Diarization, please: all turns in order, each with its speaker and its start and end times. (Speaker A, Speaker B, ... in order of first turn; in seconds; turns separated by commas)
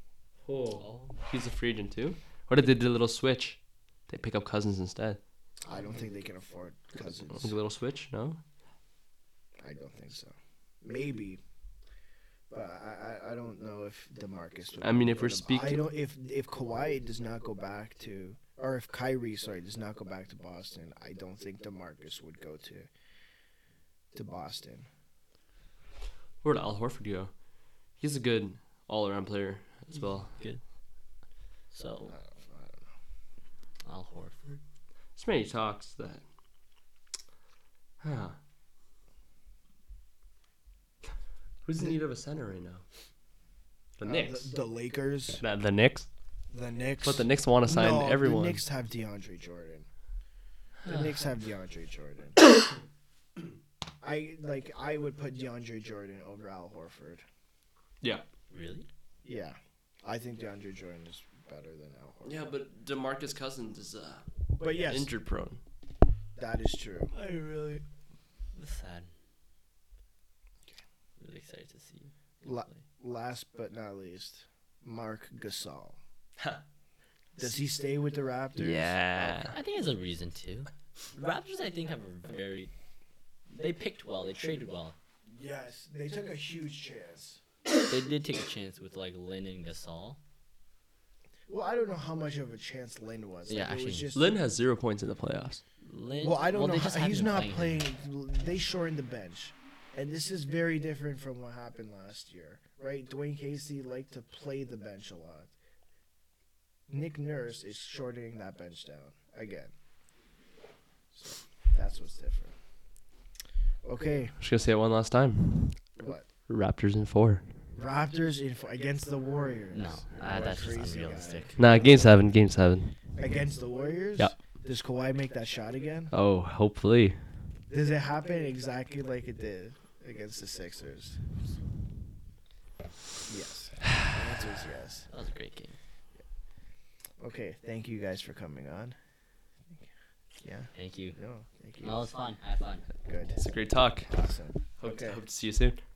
Speaker A: 0.5-5.2, Speaker B: 0.8-1.1, Speaker C: 5.6-7.5, Speaker A: 7.3-8.4, Speaker C: 9.6-11.4, Speaker C: 12.5-22.9, Speaker A: 14.8-15.8, Speaker C: 24.1-24.9, Speaker A: 26.4-27.3, Speaker A: 28.0-30.4, Speaker B: 29.9-30.6, Speaker B: 31.7-32.1, Speaker C: 32.0-32.9, Speaker B: 33.8-34.6, Speaker A: 35.1-36.2, Speaker A: 38.0-38.4, Speaker A: 41.6-42.8, Speaker A: 44.0-44.5, Speaker C: 44.0-45.4, Speaker A: 45.4-46.1, Speaker C: 46.5-49.9, Speaker A: 47.0-48.6, Speaker C: 50.8-52.4, Speaker C: 54.0-57.2, Speaker B: 58.5-58.9, Speaker C: 59.2-62.5, Speaker A: 62.2-65.6, Speaker C: 64.6-65.1, Speaker C: 66.3-67.1, Speaker B: 67.1-67.8, Speaker B: 68.5-69.1, Speaker B: 71.2-72.8, Speaker C: 72.4-76.0, Speaker C: 77.3-79.4, Speaker A: 78.6-79.5, Speaker B: 79.4-82.7, Speaker B: 83.5-84.9, Speaker C: 85.3-87.4, Speaker B: 87.9-90.2, Speaker C: 91.5-94.3, Speaker B: 93.5-94.1, Speaker A: 94.1-95.6, Speaker B: 95.8-97.8, Speaker C: 96.2-105.5, Speaker C: 106.9-109.7, Speaker C: 111.1-112.5, Speaker C: 113.8-114.4, Speaker A: 114.4-117.4, Speaker C: 116.0-116.2, Speaker C: 117.7-122.2, Speaker B: 119.7-121.6, Speaker A: 121.6-123.0, Speaker C: 123.2-126.1, Speaker A: 126.1-127.2, Speaker C: 127.7-131.2, Speaker C: 133.2-135.1, Speaker B: 135.1-135.8, Speaker C: 137.2-138.9, Speaker C: 140.4-142.0, Speaker B: 140.7-141.2, Speaker B: 141.8-142.8, Speaker C: 143.0-143.4, Speaker A: 143.4-144.1, Speaker C: 144.1-145.2, Speaker A: 144.8-145.8